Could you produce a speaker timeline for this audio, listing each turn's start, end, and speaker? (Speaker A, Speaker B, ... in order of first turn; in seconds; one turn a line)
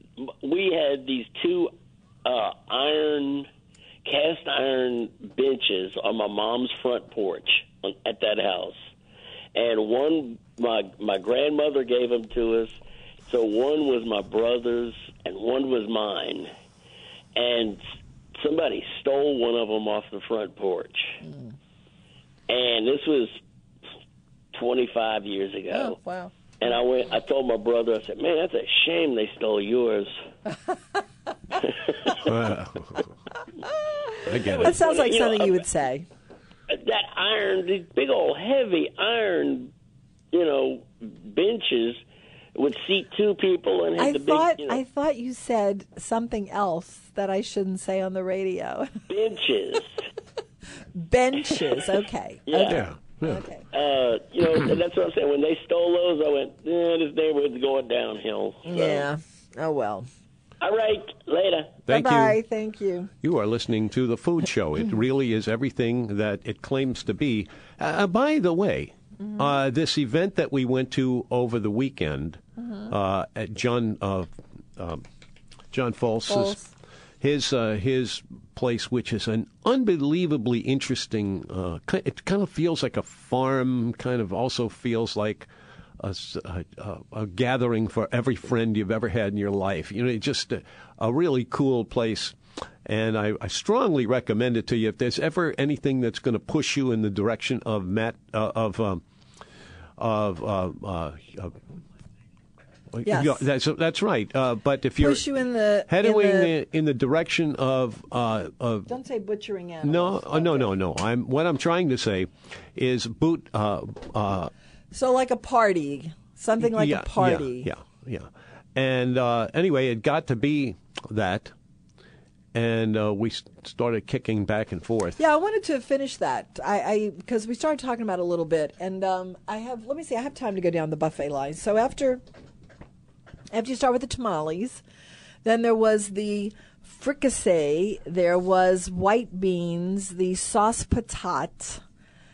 Speaker A: 0.2-1.7
Speaker A: 2.2-3.5
Speaker A: 4.0-8.8
Speaker A: 9.5-12.7
Speaker A: 13.3-16.5
Speaker A: 17.3-17.8
Speaker A: 18.4-21.1
Speaker A: 22.5-23.4
Speaker A: 24.5-26.0
Speaker B: 25.7-26.3
Speaker A: 26.6-30.1
Speaker A: 31.6-32.2
Speaker C: 32.1-33.0
Speaker C: 34.2-34.8
Speaker A: 34.4-35.6
Speaker B: 34.5-36.0
Speaker A: 36.7-39.7
Speaker A: 40.3-42.0
Speaker A: 42.5-44.8
Speaker B: 44.0-49.0
Speaker A: 49.1-49.9
Speaker B: 50.9-53.6
Speaker A: 52.5-52.8
Speaker C: 52.6-53.4
Speaker A: 53.7-59.0
Speaker B: 58.6-60.1
Speaker A: 60.6-61.8
Speaker C: 61.8-62.4
Speaker B: 61.9-63.1
Speaker C: 63.2-75.0
Speaker C: 75.7-76.6
Speaker B: 76.3-76.7
Speaker C: 77.2-85.5
Speaker C: 86.0-99.0
Speaker C: 100.0-101.5
Speaker C: 102.9-105.3
Speaker B: 103.0-103.4
Speaker B: 105.0-106.5
Speaker C: 105.9-108.9
Speaker B: 108.9-110.7
Speaker C: 109.8-114.5
Speaker B: 114.9-117.7
Speaker C: 116.6-121.5
Speaker C: 122.5-125.2
Speaker B: 125.2-132.2
Speaker B: 133.5-134.8
Speaker B: 135.4-141.8